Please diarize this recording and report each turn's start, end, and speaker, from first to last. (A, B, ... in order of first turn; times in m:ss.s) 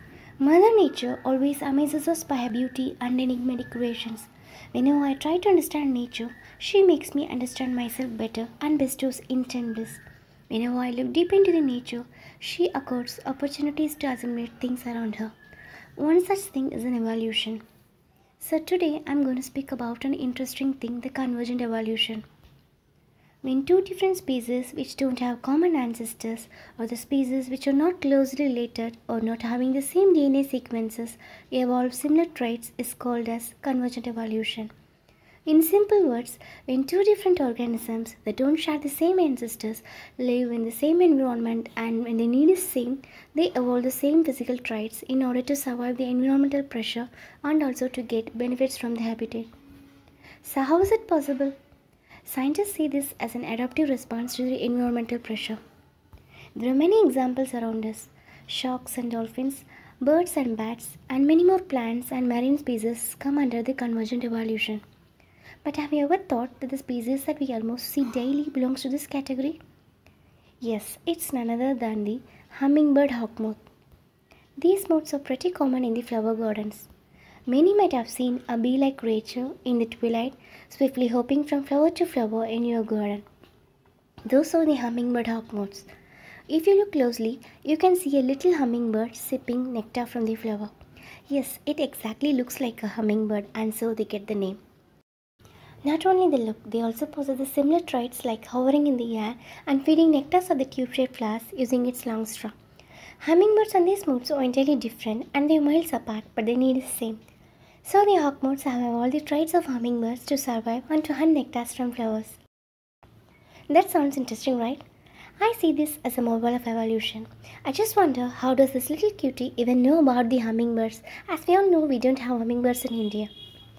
0:00.4-0:15.3 A
0:16.0-0:17.6 A
0:18.4-0:22.2 A
0:23.4-0:34.7 A
0:35.5-0:49.5 A
0:50.4-0:51.5 A
0:52.2-0:55.6 A
0:56.5-1:04.8 A
1:05.6-1:09.6 A
1:10.6-1:13.6 A
1:14.6-1:16.9 A
1:17.5-1:23.2 A
1:24.3-1:25.9 A
1:26.5-1:30.7 A
1:31.3-1:34.6 A
1:35.8-1:42.5 A
1:43.2-1:47.2 A
1:47.8-1:52.4 A
1:53.7-1:54.8 A
1:55.4-2:03.3 A